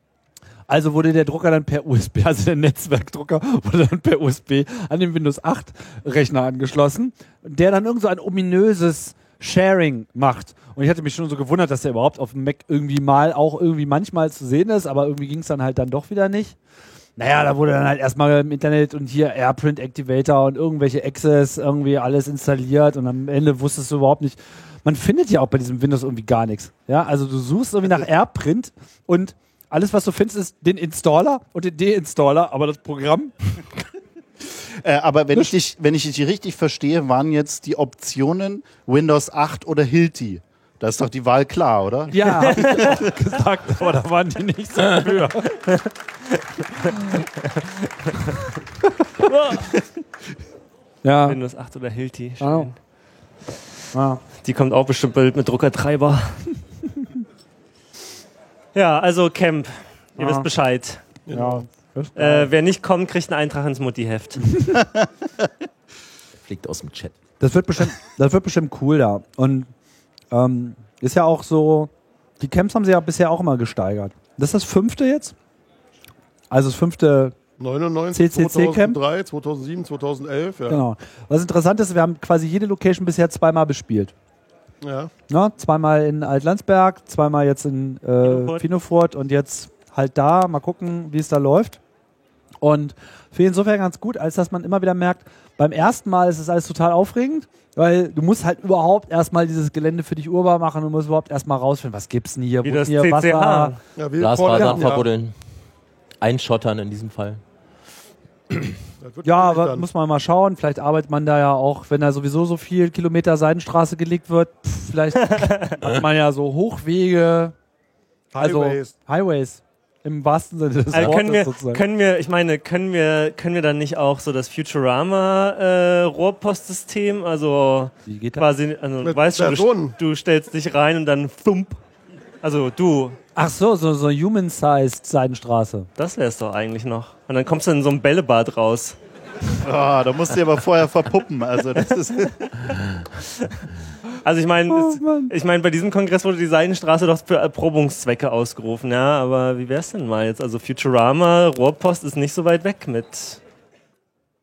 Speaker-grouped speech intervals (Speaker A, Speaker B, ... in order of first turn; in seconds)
Speaker A: 0.7-16.6, 17.2-33.3, 42.1-45.5, 51.0-51.4, 52.4-52.7, 53.9-54.2, 60.2-60.5, 61.3-62.5, 64.5-64.8, 67.4-69.7, 70.3-75.3, 76.5-77.4, 78.1-79.0, 80.7-84.1, 85.3-91.8, 92.6-103.8, 104.5-104.8, 109.2-117.5, 118.4-121.8, 128.1-128.4, 133.4-135.9, 144.7-145.3
Speaker B: 34.8-43.0, 139.6-142.5
Speaker C: 42.4-43.0, 46.9-48.3, 49.2-49.8, 51.2-52.8, 54.4-56.5, 58.8-61.0, 62.2-64.4, 88.2-88.7, 102.6-103.8, 115.2-115.8, 120.9-131.8, 132.4-133.2, 136.0-139.0, 144.2-153.4
Speaker D: 61.3-61.6, 77.6-80.8, 84.8-85.1, 104.0-105.1, 109.0-109.9, 118.3-118.9, 129.0-129.9
Speaker E: 66.3-67.2, 104.2-105.3, 106.2-107.4